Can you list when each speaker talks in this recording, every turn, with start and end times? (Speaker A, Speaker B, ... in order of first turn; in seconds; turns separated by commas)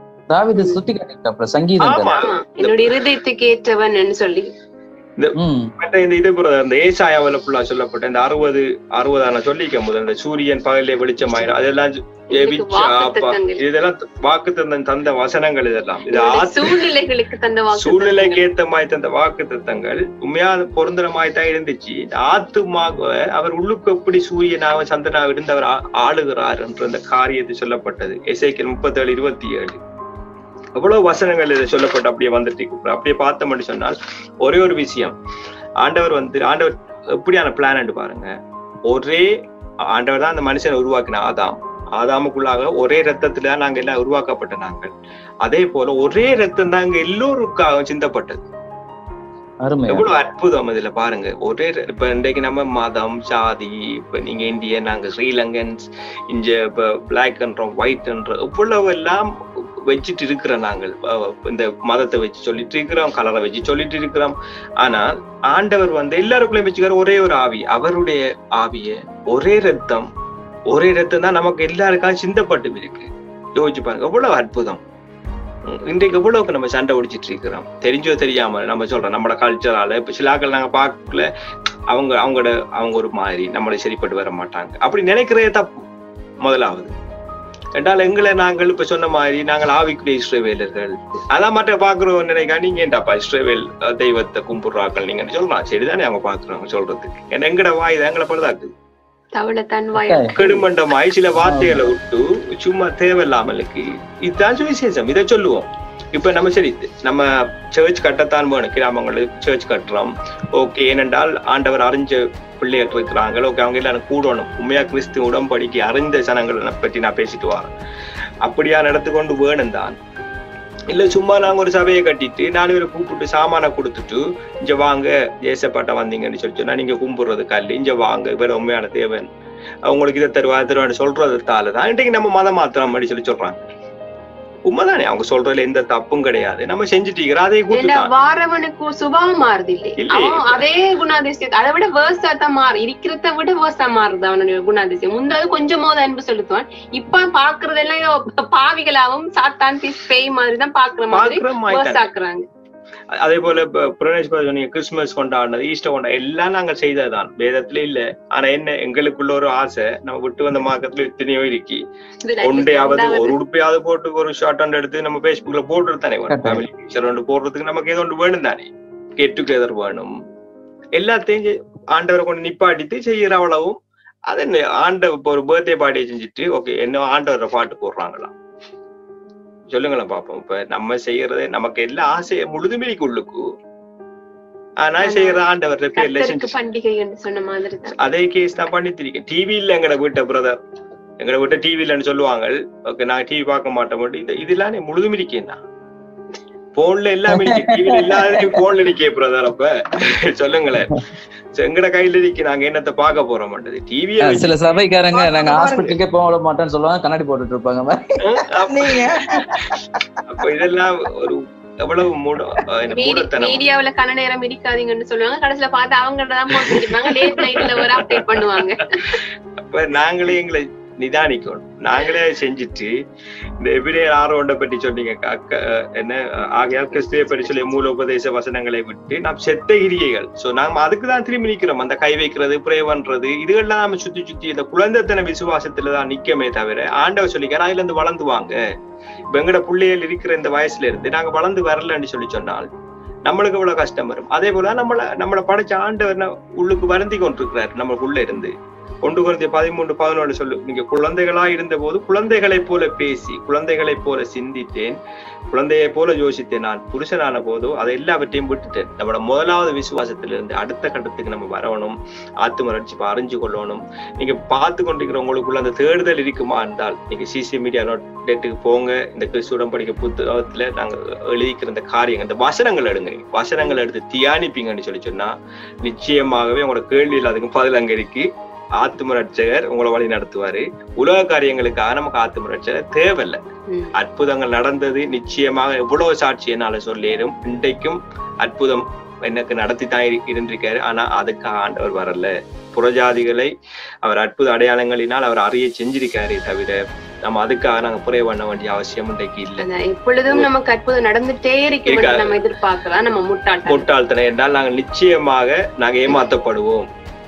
Speaker A: 0.3-2.2, Speaker B: 0.6-0.8, Speaker C: 1.8-3.0, Speaker B: 1.9-4.5, Speaker C: 5.2-16.8, Speaker A: 5.4-5.7, Speaker B: 12.3-13.6, Speaker B: 16.1-18.4, Speaker C: 17.8-29.8, Speaker C: 30.8-35.1, Speaker C: 35.8-38.3, Speaker C: 38.9-39.3, Speaker C: 39.9-44.9, Speaker C: 45.4-48.4, Speaker A: 49.6-50.1, Speaker C: 49.9-59.3, Speaker C: 59.9-70.1, Speaker C: 70.7-74.8, Speaker C: 75.7-81.3, Speaker C: 81.9-85.7, Speaker C: 86.4-86.9, Speaker C: 87.8-98.7, Speaker B: 99.3-100.6, Speaker A: 100.0-100.3, Speaker C: 100.4-117.7, Speaker A: 101.4-101.8, Speaker C: 118.4-120.0, Speaker C: 120.9-129.3, Speaker C: 129.9-133.6, Speaker C: 134.7-138.1, Speaker B: 137.7-152.5, Speaker C: 140.0-140.6, Speaker C: 151.1-152.0, Speaker C: 153.2-161.8, Speaker B: 162.2-163.3, Speaker C: 162.4-170.1, Speaker A: 166.3-166.6, Speaker C: 171.0-173.8, Speaker C: 174.3-178.3, Speaker C: 179.7-183.5, Speaker C: 184.8-186.5, Speaker B: 185.0-185.4, Speaker B: 186.0-188.0, Speaker C: 188.0-190.6, Speaker C: 191.2-195.6, Speaker C: 196.8-204.6, Speaker A: 197.3-198.6, Speaker A: 204.2-210.4, Speaker C: 205.5-205.9, Speaker C: 208.2-209.4, Speaker C: 210.3-213.6, Speaker B: 212.9-219.2, Speaker C: 216.6-218.6, Speaker C: 219.7-222.9, Speaker C: 223.6-238.6, Speaker C: 239.3-242.7, Speaker C: 243.3-255.0, Speaker C: 255.5-278.3, Speaker C: 278.8-283.4, Speaker C: 283.9-293.5, Speaker C: 294.0-299.6, Speaker B: 299.6-303.9, Speaker C: 301.9-302.4, Speaker C: 303.7-306.9